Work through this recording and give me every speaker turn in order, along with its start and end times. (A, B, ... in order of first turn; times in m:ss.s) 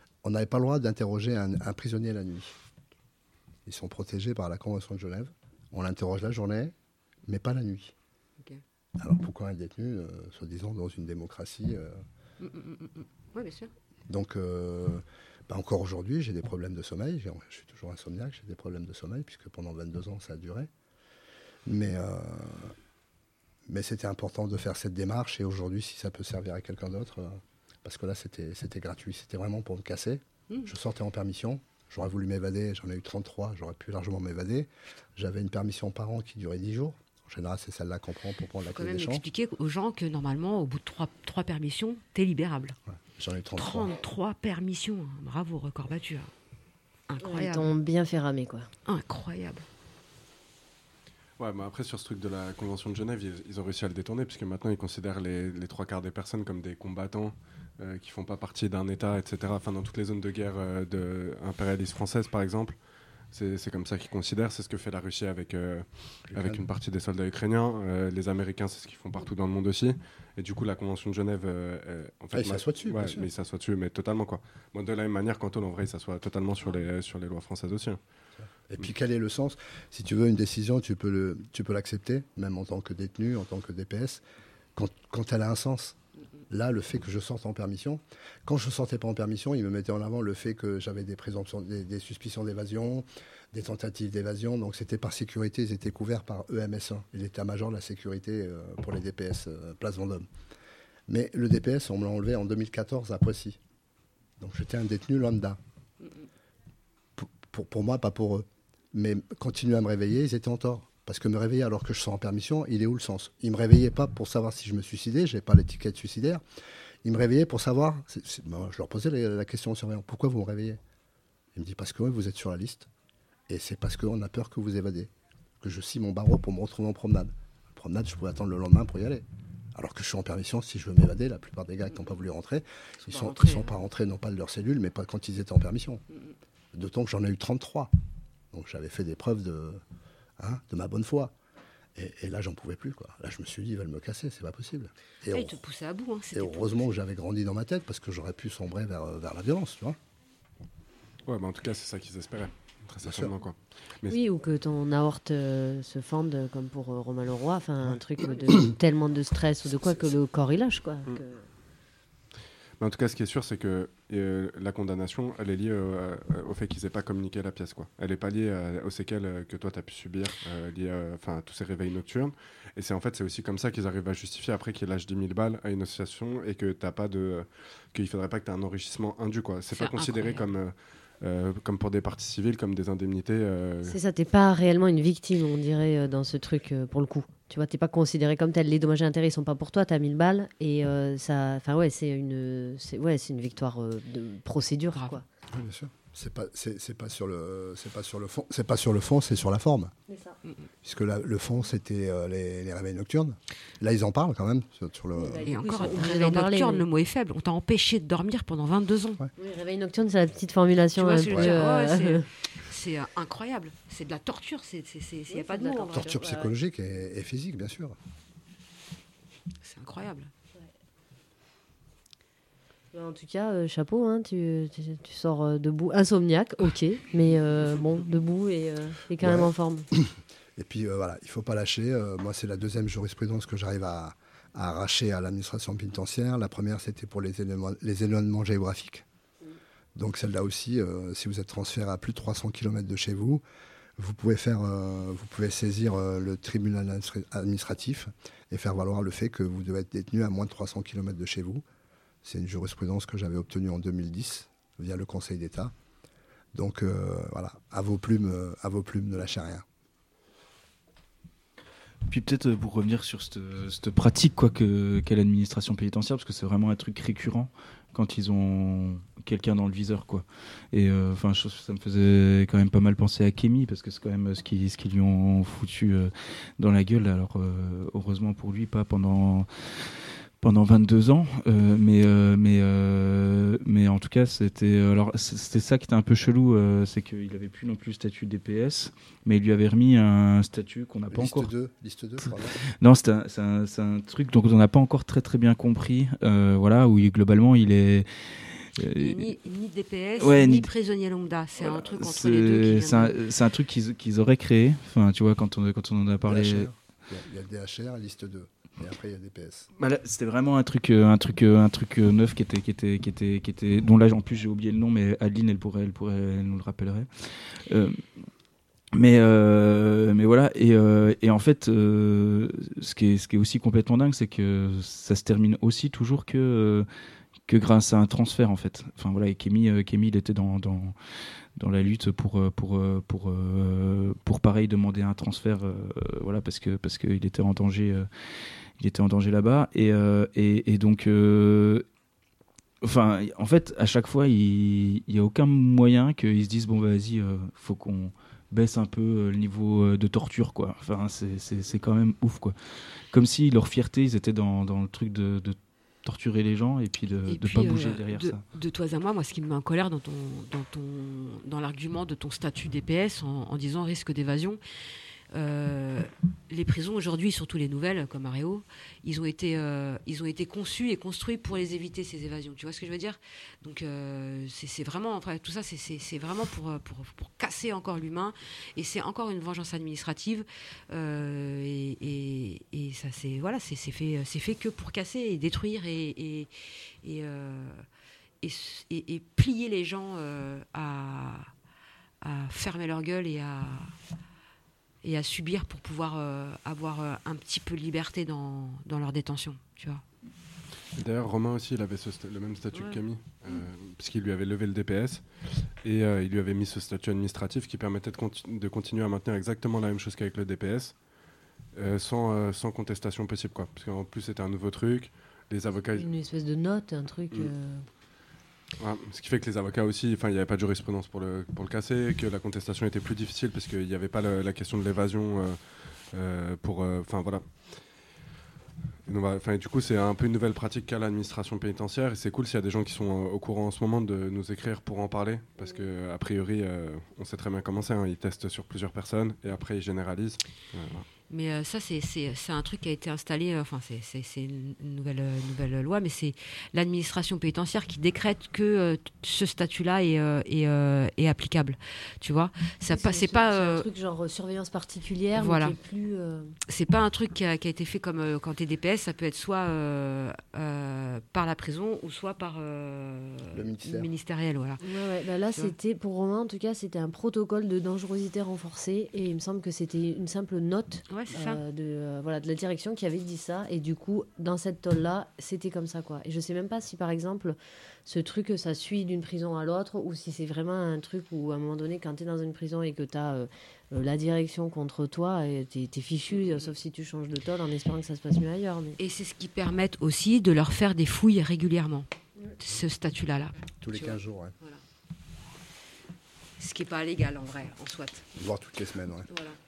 0:00.2-0:02.6 A
0:03.7-0:06.7 A
0:07.3-0:08.0 A
0:09.0-0:12.0 A
0:12.4-0:13.7 B
0:14.1-0:20.7 A
0:21.7-0:22.8 A
0:23.7-0:39.2 A
0:38.7-0:42.8 B
0:42.9-0:43.9 A
0:43.6-0:46.3 B
0:47.1-0:47.8 B
0:47.2-0:48.7 C
0:48.8-0:49.6 B
0:51.4-1:02.8 D
1:03.3-1:18.0 D
1:06.3-1:06.7 A
1:12.3-1:13.3 A
1:18.4-1:24.2 A
1:24.8-1:26.0 A
1:26.5-1:40.3 A
1:41.1-1:43.6 A
1:44.4-1:45.6 A
1:47.2-1:56.4 A
1:57.0-2:00.8 A
2:01.5-2:02.9 A
2:03.5-2:16.0 A
2:13.1-2:13.8 B
2:16.7-2:17.9 A
2:18.5-2:19.8 A
2:20.4-2:21.3 A
2:22.0-2:25.6 A
2:25.3-2:27.0 B
2:26.3-2:30.0 A
2:31.3-2:34.2 D
2:33.0-2:33.3 A
2:34.1-2:41.5 C
2:38.4-2:38.7 A
2:39.7-2:40.1 A
2:42.8-3:04.0 D
2:59.7-3:00.5 B
3:03.8-3:15.2 C
3:14.9-3:15.2 B
3:15.5-3:19.9 A
3:20.1-3:20.4 C
3:20.8-3:25.5 A
3:25.2-3:26.8 C
3:25.4-3:29.3 B
3:29.4-3:32.3 C
3:31.0-3:36.5 B
3:35.3-3:36.5 C
3:35.9-3:38.0 A
3:39.6-3:40.3 B
3:42.9-3:49.9 C
3:49.2-3:59.0 A
4:00.0-4:03.4 A
4:04.0-4:11.6 A
4:12.2-4:15.7 A
4:16.5-4:19.7 A
4:22.1-4:39.9 E
4:40.4-4:51.5 E
4:51.1-4:52.5 A
4:52.2-4:59.3 E
4:59.0-5:03.1 B
5:00.2-5:00.7 E
5:01.7-5:06.7 E
5:06.2-5:09.7 A
5:09.8-5:18.2 E
5:19.0-5:26.9 E
5:27.5-5:31.0 E
5:31.6-5:41.8 E
5:42.8-5:52.6 E
5:53.1-5:58.4 E
5:57.3-6:04.6 B
6:05.3-6:26.5 B
6:27.0-6:27.8 B
6:28.4-6:31.5 B
6:32.2-6:34.0 B
6:35.0-6:40.0 B
6:41.0-6:45.3 D
6:42.7-6:43.0 B
6:45.8-6:51.0 D
6:51.8-6:56.1 D
6:55.9-6:57.9 C
6:58.8-7:07.8 D
7:09.1-7:21.1 D
7:21.3-7:33.9 B
7:32.9-7:36.5 C
7:35.3-7:35.8 B
7:36.7-7:44.9 B
7:43.5-7:44.1 A
7:44.8-8:09.0 C
7:45.5-7:45.7 B
7:51.1-7:51.6 B
8:06.4-8:06.7 B
8:09.0-8:12.1 B
8:12.6-8:14.8 B
8:13.8-8:14.6 A
8:16.6-8:18.3 B
8:18.4-8:19.3 A
8:19.3-8:19.6 B